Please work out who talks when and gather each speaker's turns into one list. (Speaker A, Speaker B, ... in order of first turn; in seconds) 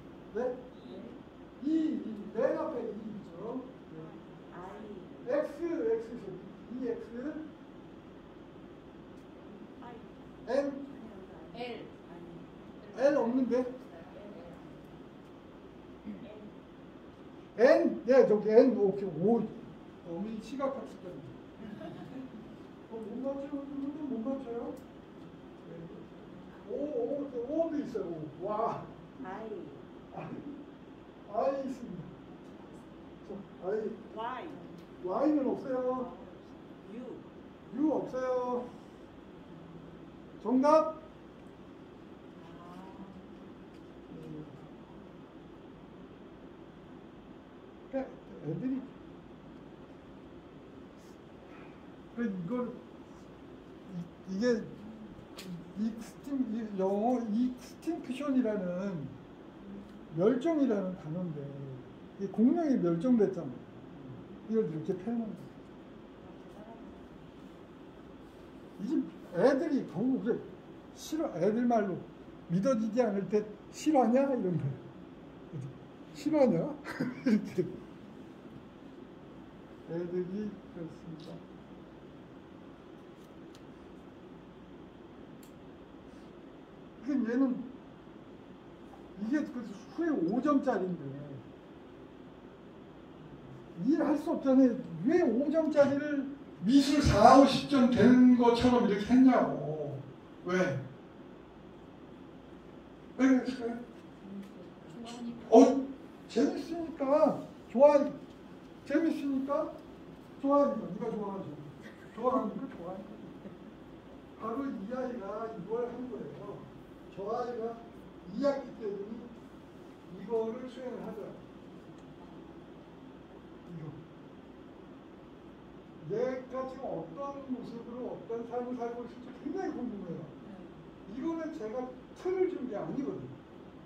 Speaker A: 0.3-0.6, 1.6-4.2, 5.2-7.5, 10.4-10.8, 12.9-13.7, 17.6-22.0, 22.9-24.8, 25.6-26.1, 26.6-28.9, 30.1-30.5, 31.2-32.1, 33.2-34.0, 35.0-36.1, 37.6-38.7, 40.4-41.0, 44.1-44.5, 47.9-48.9, 52.1-52.8, 53.9-54.7, 55.4-59.1, 60.1-65.5, 68.8-74.8, 75.5-77.7, 79.8-81.4, 87.0-87.7, 89.2-91.4, 93.7-100.8, 103.2-103.8, 105.4-108.2, 108.8-109.7, 110.4-113.4, 114.3-119.3, 120.0-121.4, 123.7-124.0, 126.0-130.3, 131.1-133.4
Speaker B: 0.8-1.1, 4.5-5.0, 11.5-14.8, 104.2-105.6, 130.4-130.8
Speaker C: 4.2-5.1, 11.1-11.5, 29.3-29.7, 36.1-37.2, 42.5-43.1, 66.4-67.1